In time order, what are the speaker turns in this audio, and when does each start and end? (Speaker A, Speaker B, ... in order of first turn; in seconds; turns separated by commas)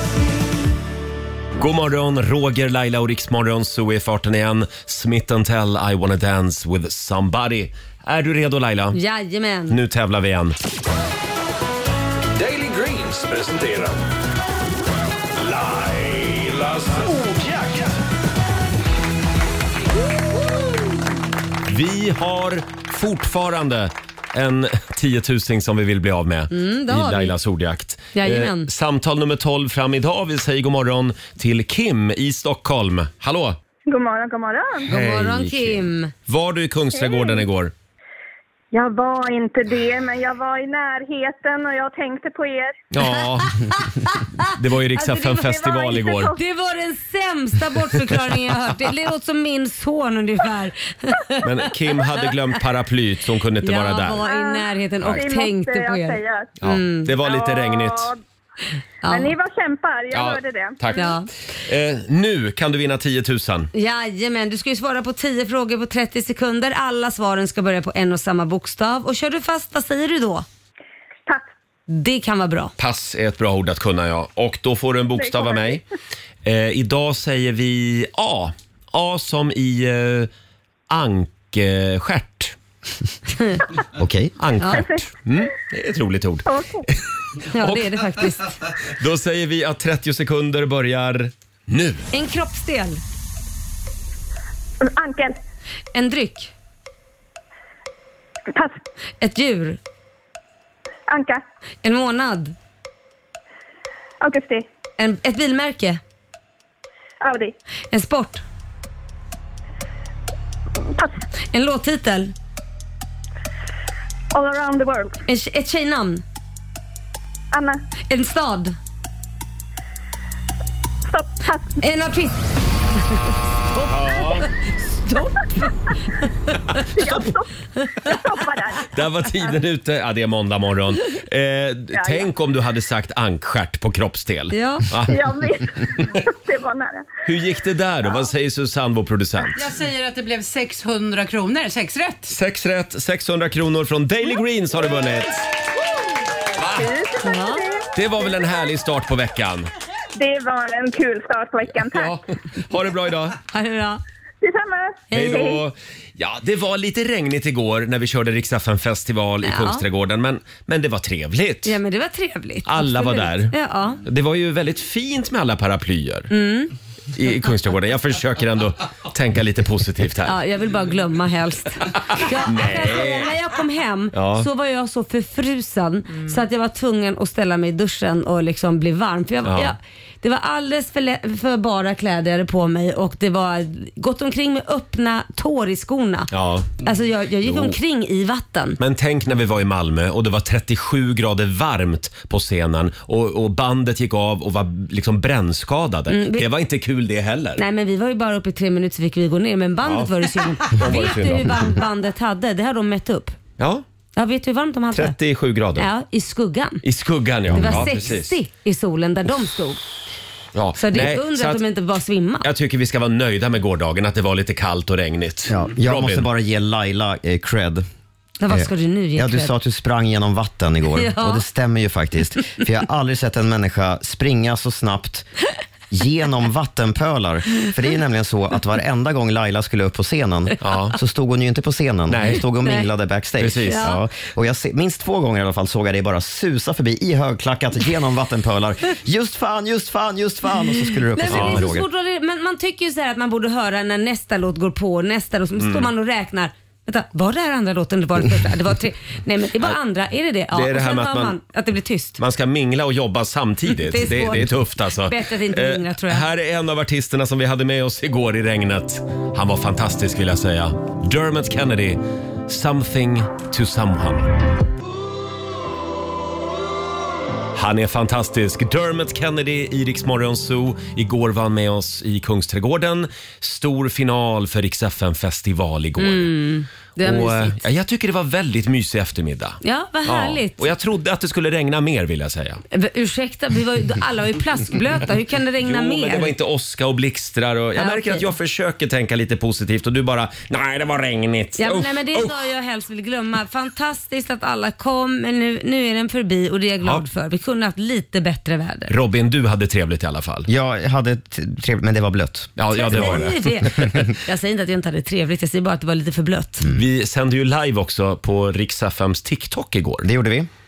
Speaker A: 1.6-9.0, Speaker B: 8.9-9.8, Speaker A: 9.7-10.5, Speaker C: 12.3-14.0, Speaker C: 15.4-18.0, Speaker A: 21.7-33.6, Speaker B: 26.5-27.4, Speaker B: 28.1-28.7, Speaker D: 33.9-34.9, Speaker B: 34.9-36.1, Speaker A: 34.9-37.7, Speaker D: 37.0-37.4, Speaker D: 38.7-42.8, Speaker A: 42.9-43.5, Speaker B: 43.4-51.7, Speaker A: 44.5-46.4, Speaker D: 45.6-46.4, Speaker A: 51.4-54.2, Speaker B: 53.6-57.1, Speaker D: 54.2-56.5, Speaker A: 56.6-58.1, Speaker D: 57.2-58.2, Speaker B: 59.0-59.3, Speaker D: 59.1-61.0, Speaker A: 60.1-63.7, Speaker B: 60.9-61.3, Speaker B: 63.7-70.4, Speaker B: 71.9-72.7, Speaker A: 72.8-75.8, Speaker D: 75.2-75.8, Speaker A: 76.4-80.3, Speaker A: 80.9-82.5, Speaker E: 84.0-84.3, Speaker A: 84.4-86.9, Speaker D: 84.7-85.0, Speaker D: 86.5-86.8, Speaker B: 87.5-88.6, Speaker A: 87.6-88.1, Speaker A: 89.0-92.1, Speaker B: 92.1-93.0, Speaker D: 94.8-95.4, Speaker B: 95.9-96.5, Speaker B: 99.2-99.8, Speaker D: 101.1-101.4, Speaker B: 101.8-102.5, Speaker D: 104.2-104.6, Speaker B: 105.0-106.0, Speaker D: 107.2-107.5, Speaker B: 107.9-108.4, Speaker B: 111.5-112.3, Speaker D: 114.3-115.2, Speaker B: 115.3-116.2, Speaker D: 117.5-117.8, Speaker B: 118.1-118.8, Speaker D: 121.1-121.8, Speaker B: 121.8-122.5, Speaker B: 123.0-124.5, Speaker A: 123.9-124.5, Speaker B: 125.0-126.8, Speaker D: 126.9-127.5, Speaker B: 127.8-128.1, Speaker D: 128.0-129.6, Speaker A: 128.9-135.2, Speaker D: 131.9-132.3, Speaker B: 134.5-134.9, Speaker D: 135.1-137.1, Speaker A: 137.2-139.6, Speaker F: 139.6-142.3, Speaker A: 142.3-145.4, Speaker A: 146.6-146.9, Speaker D: 146.7-147.9, Speaker B: 147.2-147.6, Speaker A: 147.9-149.7, Speaker D: 150.1-152.1, Speaker A: 151.9-153.4, Speaker B: 153.5-154.0, Speaker D: 154.4-155.6, Speaker B: 155.1-155.5, Speaker A: 155.1-161.8, Speaker B: 159.4-159.8, Speaker B: 161.7-164.0, Speaker A: 162.7-166.3, Speaker B: 166.3-166.7, Speaker A: 167.1-170.4, Speaker B: 170.2-188.8, Speaker A: 171.9-173.3, Speaker A: 174.1-174.5, Speaker A: 179.4-179.7, Speaker A: 186.3-186.8, Speaker A: 187.4-187.8, Speaker A: 188.8-197.6, Speaker B: 196.1-196.4, Speaker B: 197.6-203.3, Speaker A: 199.8-200.1, Speaker A: 200.6-201.7, Speaker A: 203.6-203.8, Speaker B: 204.2-205.2, Speaker A: 204.9-205.9, Speaker B: 205.8-206.8, Speaker A: 206.8-208.3, Speaker E: 207.5-207.9, Speaker B: 207.5-209.8, Speaker A: 210.5-211.6, Speaker B: 210.8-212.5, Speaker A: 212.4-216.2, Speaker E: 215.5-217.8, Speaker B: 218.4-219.5, Speaker E: 218.5-225.3, Speaker B: 220.9-221.4, Speaker E: 225.9-241.9, Speaker A: 230.6-231.0, Speaker A: 232.1-232.4, Speaker A: 233.4-233.9, Speaker B: 233.6-234.0, Speaker B: 241.1-252.2, Speaker A: 241.3-241.7, Speaker A: 245.6-245.9, Speaker A: 250.5-251.4, Speaker A: 252.2-264.4, Speaker B: 253.7-256.2, Speaker A: 267.5-276.3, Speaker B: 276.0-277.6, Speaker A: 277.0-282.6, Speaker B: 279.6-280.6, Speaker B: 282.7-286.3, Speaker A: 285.6-292.4, Speaker B: 287.8-288.3, Speaker B: 291.6-298.9, Speaker A: 298.9-300.5, Speaker E: 300.4-303.2, Speaker A: 302.6-304.1, Speaker B: 302.7-306.6, Speaker A: 306.7-310.1, Speaker E: 310.0-310.5